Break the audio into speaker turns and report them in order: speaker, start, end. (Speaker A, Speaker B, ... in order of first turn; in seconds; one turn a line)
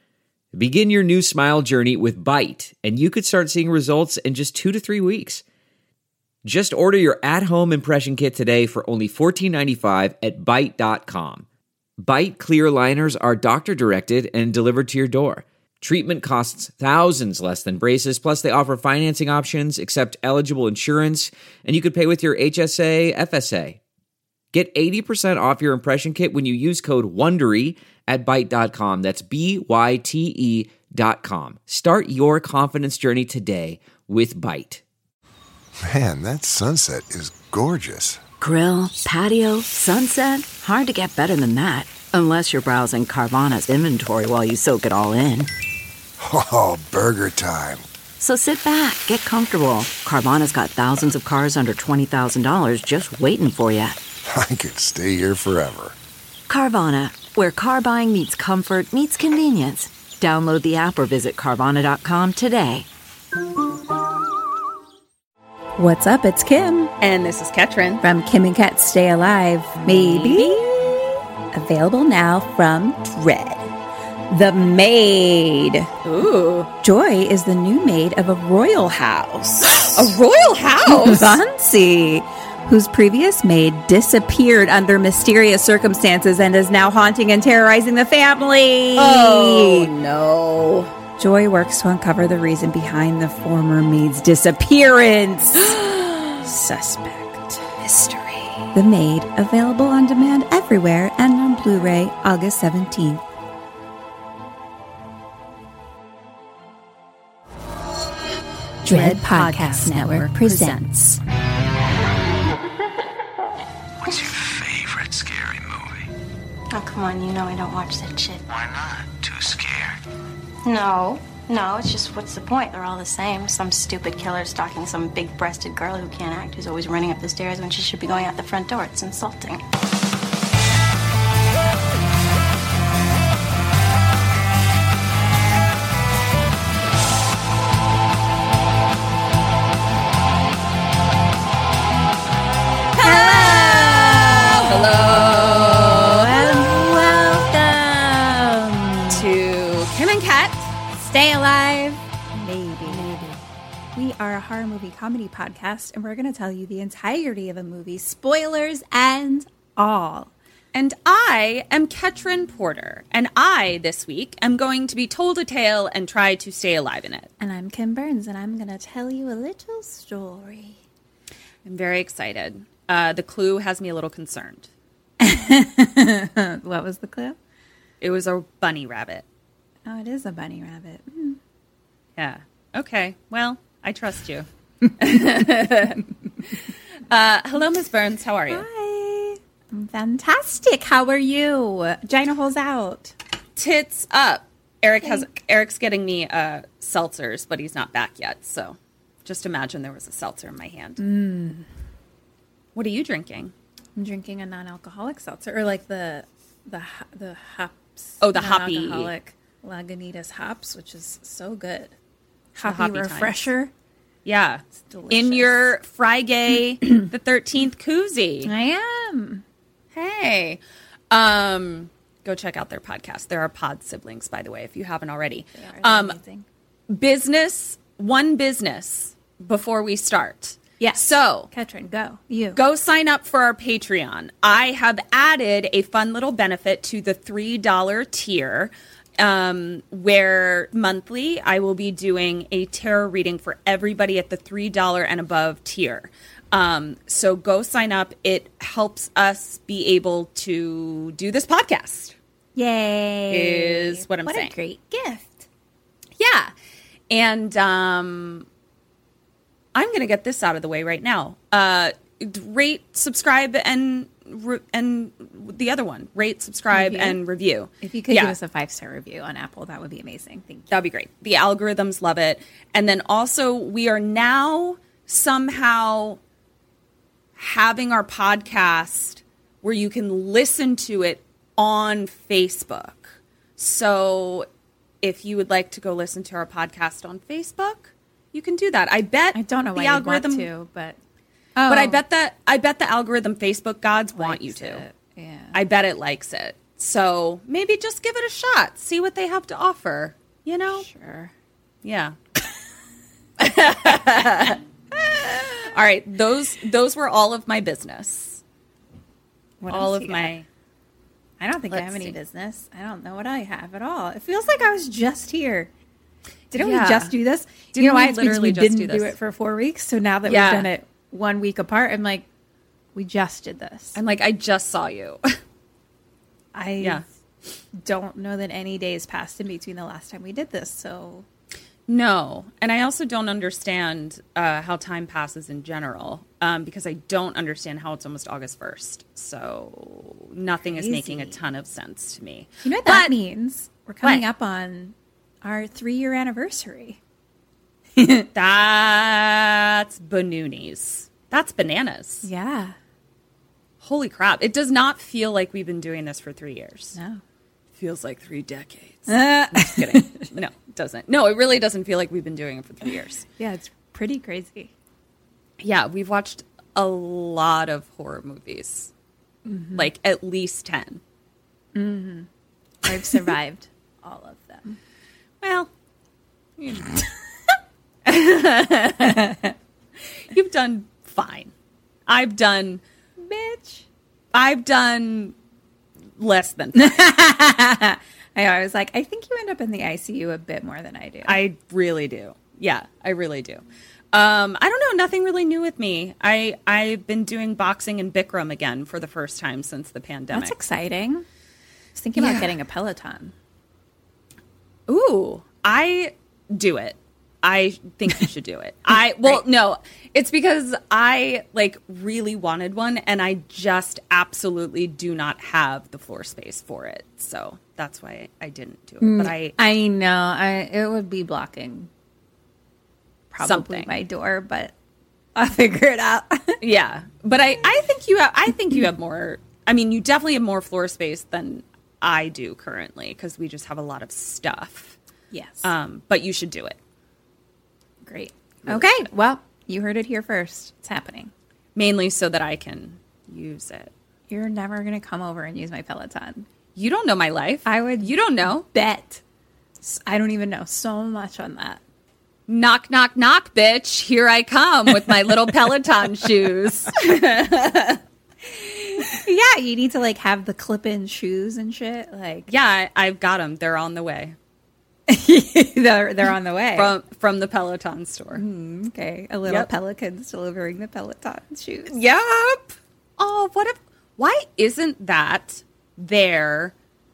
Speaker A: 0.5-5.4
Speaker A: 6.4-11.4
Speaker A: 12.0-23.8
Speaker A: 24.5-34.8
Speaker B: 35.8-38.2
Speaker C: 38.4-45.5
Speaker B: 46.2-47.8
Speaker C: 48.2-54.0
Speaker B: 54.3-56.0
Speaker C: 56.5-62.9
Speaker D: 65.8-66.9
Speaker E: 67.0-68.0
Speaker D: 68.0-73.7
Speaker E: 69.8-71.0
Speaker D: 74.3-75.9
Speaker E: 76.0-76.7
Speaker D: 76.8-80.2
Speaker E: 79.7-81.4
Speaker D: 80.8-89.9
Speaker E: 89.0-90.9
Speaker D: 91.2-95.8
Speaker E: 95.6-96.5
Speaker D: 96.4-97.8
Speaker E: 97.8-98.7
Speaker D: 98.7-103.2
Speaker D: 108.8-111.2
Speaker E: 108.8-111.2
Speaker F: 114.5-115.9
Speaker G: 116.7-118.7
Speaker F: 118.7-120.0
Speaker G: 120.7-129.6
Speaker E: 142.9-146.5
Speaker D: 143.0-149.3
Speaker E: 149.1-150.7
Speaker D: 150.9-153.1
Speaker E: 152.8-153.4
Speaker D: 153.9-160.3
Speaker E: 160.7-167.3
Speaker D: 167.4-170.8
Speaker E: 171.7-174.7
Speaker D: 175.2-177.4
Speaker E: 178.0-179.2
Speaker D: 179.8-181.4
Speaker E: 182.2-184.5
Speaker E: 185.0-186.1
Speaker E: 187.1-188.7
Speaker D: 188.5-193.1
Speaker E: 193.6-201.0
Speaker D: 201.0-201.7
Speaker E: 202.8-203.5
Speaker D: 204.0-211.9
Speaker E: 208.2-209.1
Speaker D: 212.6-213.7
Speaker E: 212.6-213.5
Speaker E: 214.2-218.5
Speaker D: 214.8-215.7
Speaker D: 218.4-219.4
Speaker E: 219.9-226.2
Speaker D: 225.6-226.5
Speaker E: 226.9-231.5
Speaker D: 230.8-232.6
Speaker E: 232.6-252.2
Speaker D: 252.6-255.5
Speaker E: 253.3-254.5
Speaker E: 256.2-256.5
Speaker E: 257.1-258.5
Speaker E: 259.7-268.4
Speaker D: 266.7-267.2
Speaker D: 267.8-270.7
Speaker E: 270.7-276.2
Speaker E: 277.4-284.5
Speaker E: 285.0-290.5
Speaker D: 289.3-291.0
Speaker D: 291.6-292.0
Speaker E: 291.7-294.8
Speaker D: 294.1-295.6
Speaker E: 295.5-300.9
Speaker D: 300.7-301.3
Speaker E: 301.8-302.2
Speaker E: 303.4-304.6
Speaker D: 305.0-305.6
Speaker E: 305.6-308.4
Speaker D: 309.6-310.3
Speaker E: 309.7-310.5
Speaker D: 311.4-315.7
Speaker E: 311.7-312.1
Speaker D: 316.5-322.2
Speaker E: 316.5-317.2
Speaker E: 317.7-319.2
Speaker E: 320.3-320.7
Speaker D: 322.9-324.0
Speaker E: 324.0-325.3
Speaker D: 326.5-327.0
Speaker D: 327.8-331.3
Speaker E: 331.9-343.1
Speaker D: 340.7-341.4
Speaker D: 342.6-347.0
Speaker D: 348.0-348.3
Speaker E: 348.4-352.3
Speaker D: 352.2-352.8
Speaker E: 353.8-357.0
Speaker D: 356.9-357.2
Speaker E: 357.8-363.3
Speaker D: 359.1-360.3
Speaker D: 363.4-364.7
Speaker E: 365.6-368.9
Speaker D: 369.5-369.9
Speaker E: 369.7-371.0
Speaker D: 371.7-372.3
Speaker D: 372.8-374.8
Speaker E: 375.4-375.7
Speaker E: 376.6-377.0
Speaker E: 378.1-379.4
Speaker D: 379.0-379.5
Speaker E: 380.3-381.5
Speaker E: 382.1-382.8
Speaker D: 383.2-383.9
Speaker E: 384.3-385.4
Speaker E: 386.2-387.1
Speaker D: 386.8-391.4
Speaker E: 391.2-400.5
Speaker D: 400.3-401.3
Speaker D: 401.9-403.3
Speaker E: 402.2-402.5
Speaker E: 404.9-419.6
Speaker D: 419.0-421.9
Speaker D: 423.3-424.7
Speaker E: 423.4-423.9
Speaker D: 425.4-426.6
Speaker E: 426.6-434.9
Speaker D: 435.3-435.7
Speaker E: 435.6-436.8
Speaker D: 438.0-441.3
Speaker E: 438.6-439.1
Speaker E: 441.8-443.9
Speaker D: 444.3-446.5
Speaker E: 446.8-448.7
Speaker D: 447.7-449.2
Speaker D: 449.8-451.8
Speaker E: 452.5-458.0
Speaker D: 459.0-462.5
Speaker E: 462.5-464.4
Speaker D: 465.1-467.0
Speaker E: 466.8-468.4
Speaker D: 468.4-472.0
Speaker E: 471.9-476.7